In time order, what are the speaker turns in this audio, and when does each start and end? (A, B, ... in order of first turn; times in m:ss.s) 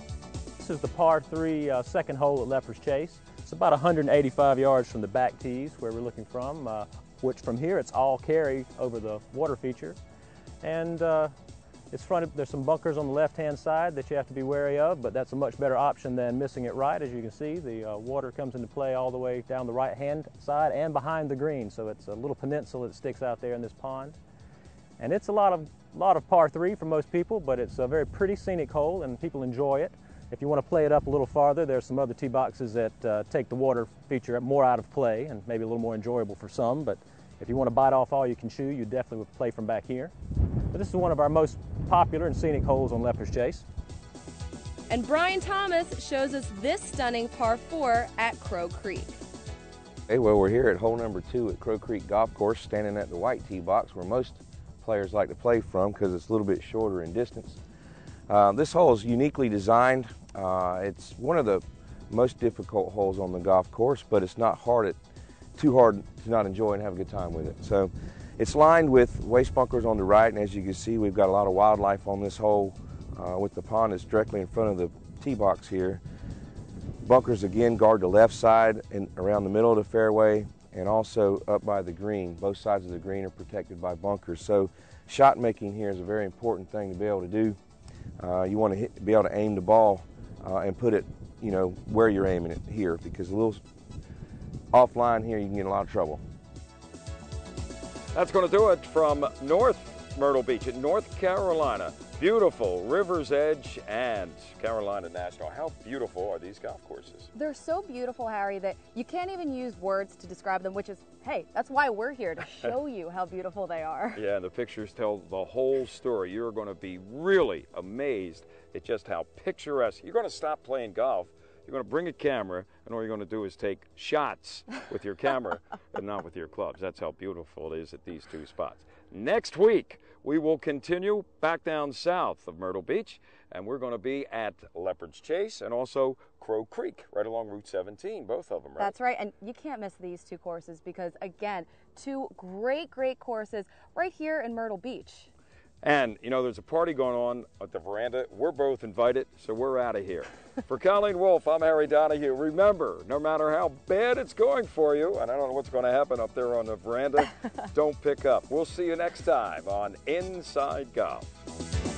0:00.6-0:10.0 A
0:10.6-0:11.3 A
0:11.9-0:24.2 A
0:25.0-0:40.1 A
0:40.7-0:43.6 A
0:44.9-0:49.1 B
0:50.1-0:57.6 C
0:58.3-1:05.0 C
1:05.6-1:16.0 C
1:17.0-1:27.6 C
1:28.2-1:33.6 C
1:34.7-1:36.2 C
1:38.1-1:47.3 D
1:47.3-1:54.2 E
1:54.1-2:19.0 D
2:18.8-2:25.3 E
2:25.8-2:41.3 D